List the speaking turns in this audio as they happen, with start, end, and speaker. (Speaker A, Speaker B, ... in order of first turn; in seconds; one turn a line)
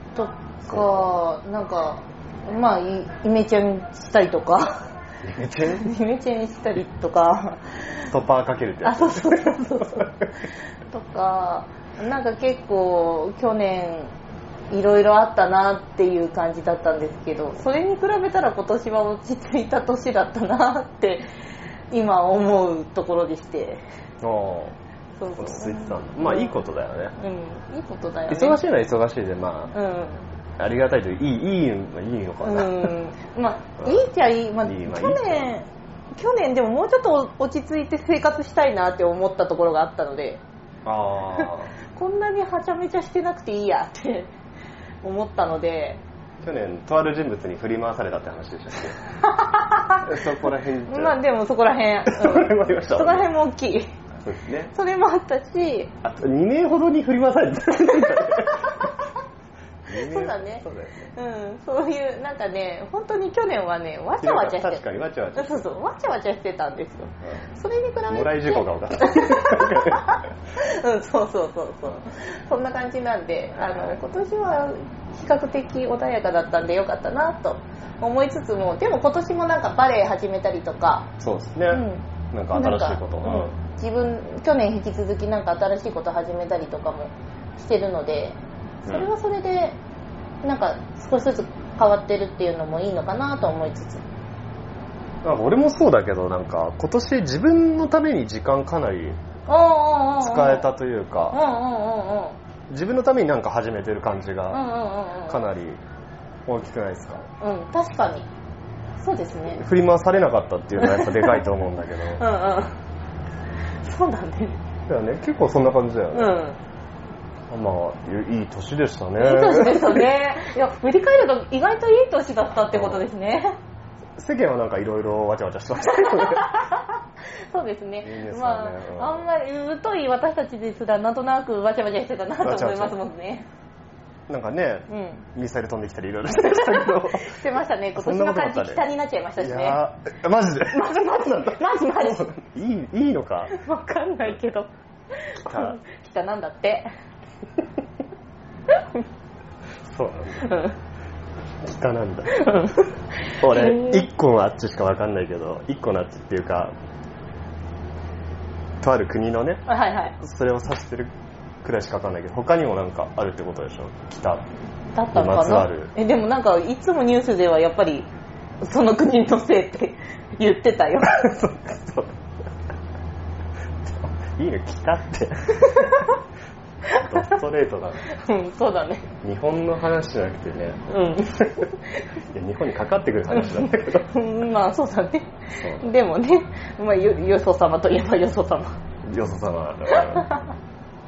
Speaker A: 0.1-4.9
Speaker B: 0.7-1.1
Speaker B: 5.2-5.9
Speaker A: 5.7-8.1
Speaker B: 8.1-10.1
Speaker A: 8.8-10.1
Speaker A: 10.9-14.1
Speaker A: 14.7-21.3
Speaker A: 21.9-23.8
Speaker B: 24.2-24.8
Speaker A: 25.2-26.6
Speaker B: 25.3-27.1
Speaker A: 27.2-28.6
Speaker B: 28.3-29.7
Speaker A: 29.7-30.3
Speaker B: 30.6-32.9
Speaker A: 32.4-40.4
Speaker B: 33.8-34.1
Speaker B: 34.6-35.5
Speaker B: 40.8-41.7
Speaker A: 41.3-44.3
Speaker A: 45.0-46.0
Speaker B: 46.4-49.0
Speaker A: 49.2-50.0
Speaker B: 50.0-51.2
Speaker A: 50.9-53.9
Speaker B: 52.0-53.3
Speaker B: 54.2-54.7
Speaker A: 54.7-55.9
Speaker B: 56.0-58.9
Speaker B: 59.9-61.1
Speaker A: 59.9-81.1
Speaker B: 64.2-65.7
Speaker B: 68.1-70.2
Speaker B: 73.5-74.0
Speaker B: 81.2-83.5
Speaker A: 81.7-89.8
Speaker A: 90.4-94.0
Speaker B: 95.2-99.2
Speaker A: 99.5-100.7
Speaker B: 100.2-101.4
Speaker A: 101.3-102.4
Speaker B: 102.7-104.6
Speaker A: 104.5-105.4
Speaker B: 105.3-105.8
Speaker B: 106.5-107.2
Speaker A: 107.4-108.3
Speaker A: 109.0-109.6
Speaker B: 109.5-112.3
Speaker A: 110.8-111.5
Speaker A: 112.1-112.8
Speaker A: 113.8-114.6
Speaker B: 114.9-116.3
Speaker A: 116.1-116.6
Speaker B: 117.5-120.1
Speaker A: 119.2-123.5
Speaker B: 122.7-123.0
Speaker B: 124.2-126.5
Speaker A: 126.1-126.9
Speaker A: 127.5-133.5
Speaker B: 128.0-129.3
Speaker B: 132.4-133.0
Speaker B: 134.3-137.4
Speaker A: 134.9-135.2
Speaker A: 136.5-139.8
Speaker B: 137.9-138.8
Speaker B: 139.4-143.6
Speaker A: 140.7-142.3
Speaker A: 143.5-146.9
Speaker B: 145.4-145.8
Speaker A: 148.7-149.0
Speaker B: 149.8-150.6
Speaker A: 150.4-150.8
Speaker B: 151.6-152.4
Speaker A: 152.3-154.1
Speaker B: 153.4-156.7
Speaker B: 158.8-159.6
Speaker A: 159.7-160.2
Speaker B: 160.2-161.1
Speaker B: 161.6-164.4
Speaker A: 164.9-168.1
Speaker B: 165.1-165.9
Speaker A: 168.6-171.2
Speaker B: 171.0-172.2
Speaker B: 173.8-175.9
Speaker A: 175.6-176.1
Speaker B: 176.9-178.1
Speaker A: 178.1-179.1
Speaker B: 179.2-180.8
Speaker A: 180.9-181.8
Speaker B: 182.3-184.1
Speaker A: 183.3-188.8
Speaker B: 185.6-185.9
Speaker B: 189.1-190.3
Speaker A: 189.9-190.5